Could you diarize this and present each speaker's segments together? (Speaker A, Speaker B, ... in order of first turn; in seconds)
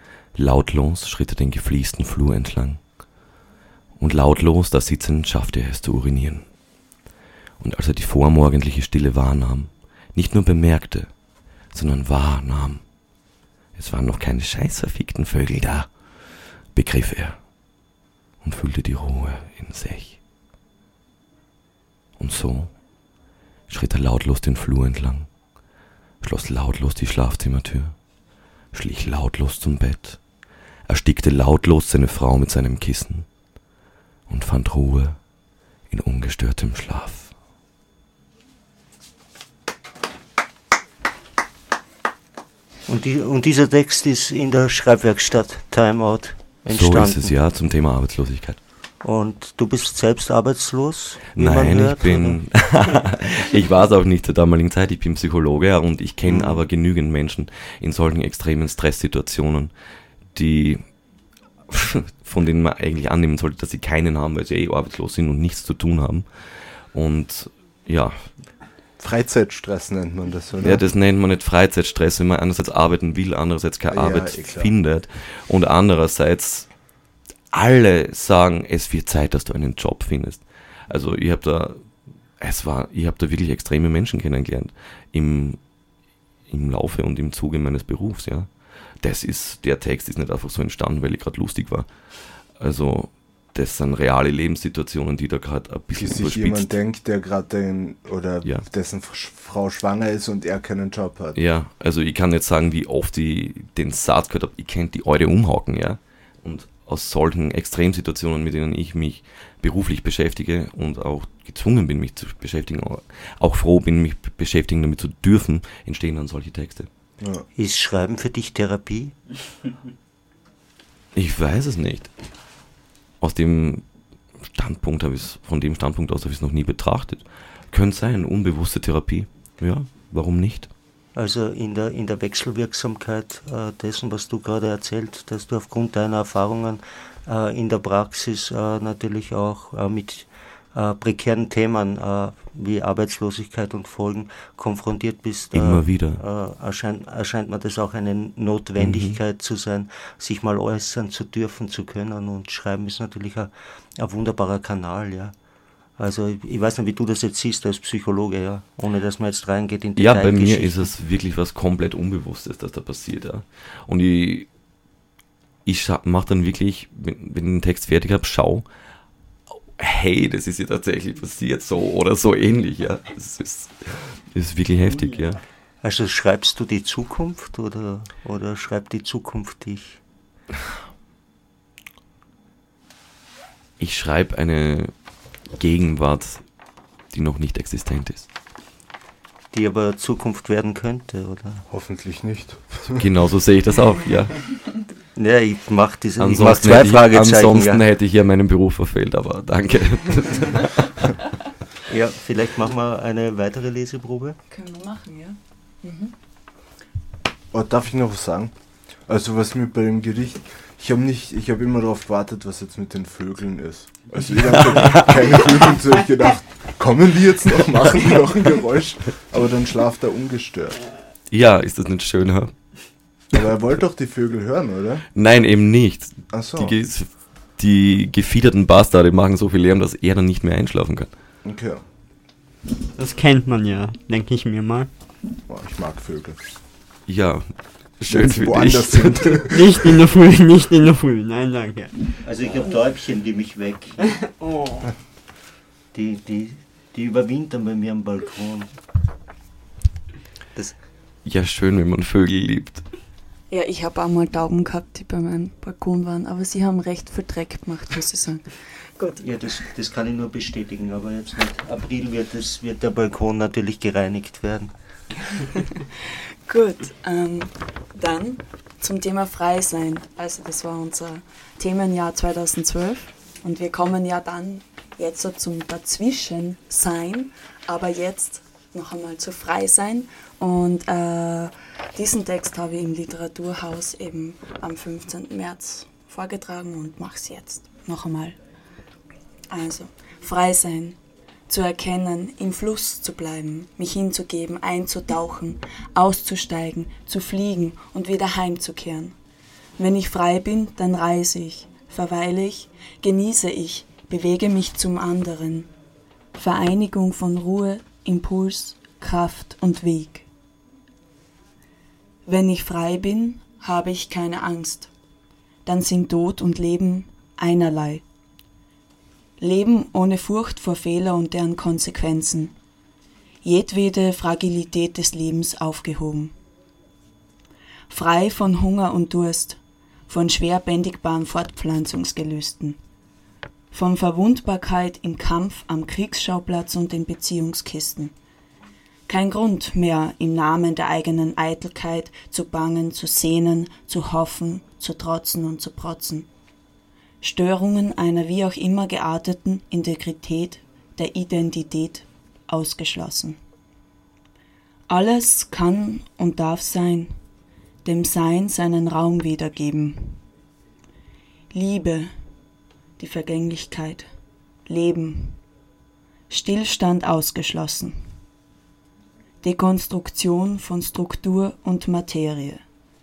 Speaker A: 0.3-2.8, 4.0-6.5, 7.6-11.1, 11.7-12.8, 13.8-17.4, 18.4-20.2, 22.2-22.8, 23.7-25.3, 26.2-28.0, 28.7-30.2, 30.9-33.3, 34.3-35.2, 35.9-37.3, 46.7-48.6, 51.4-59.7, 60.3-61.0, 61.7-68.3, 70.6-76.7, 77.5-81.9, 82.4-85.6, 86.5-96.8, 101.3-116.9, 121.1-122.1, 123.2-123.9, 124.4-130.7, 145.5-146.2, 148.8-149.2, 160.0-164.5, 165.7-168.7, 169.8-175.4, 183.8-184.9, 185.5-186.5, 187.1-188.3, 193.0-194.5, 196.2-201.1, 214.8-215.1, 221.3-222.5, 225.2-231.1, 237.1-239.4, 251.2-252.9
Speaker B: 42.9-47.3, 49.0-52.4, 56.3-56.6, 117.6-119.2, 131.2-155.3, 156.0-160.9, 175.8-180.0, 189.5-191.7, 195.2-197.8, 201.9-204.4, 242.2-244.0, 245.9-248.8, 259.2-264.7
Speaker C: 69.0-70.8, 73.9-74.7, 95.9-101.4, 117.2-117.5, 191.7-193.1, 207.5-220.8, 223.3-225.1, 226.3-226.8, 231.4-231.8, 235.5-236.4, 238.1-239.8
Speaker D: 204.5-206.1, 253.5-259.2, 266.5-288.4, 289.5-299.2, 299.8-305.7, 306.4-310.3, 312.3-314.9, 315.7-318.0, 319.4-322.6, 323.4-326.3, 327.9-332.8, 333.7-338.1, 339.1-346.3, 347.2-353.4, 354.9-357.1, 357.9-360.2, 361.5-362.1, 363.0-364.1, 364.7-365.4, 366.3-368.0, 369.4-372.6
Speaker E: 233.0-234.9, 239.5-242.2, 244.0-244.9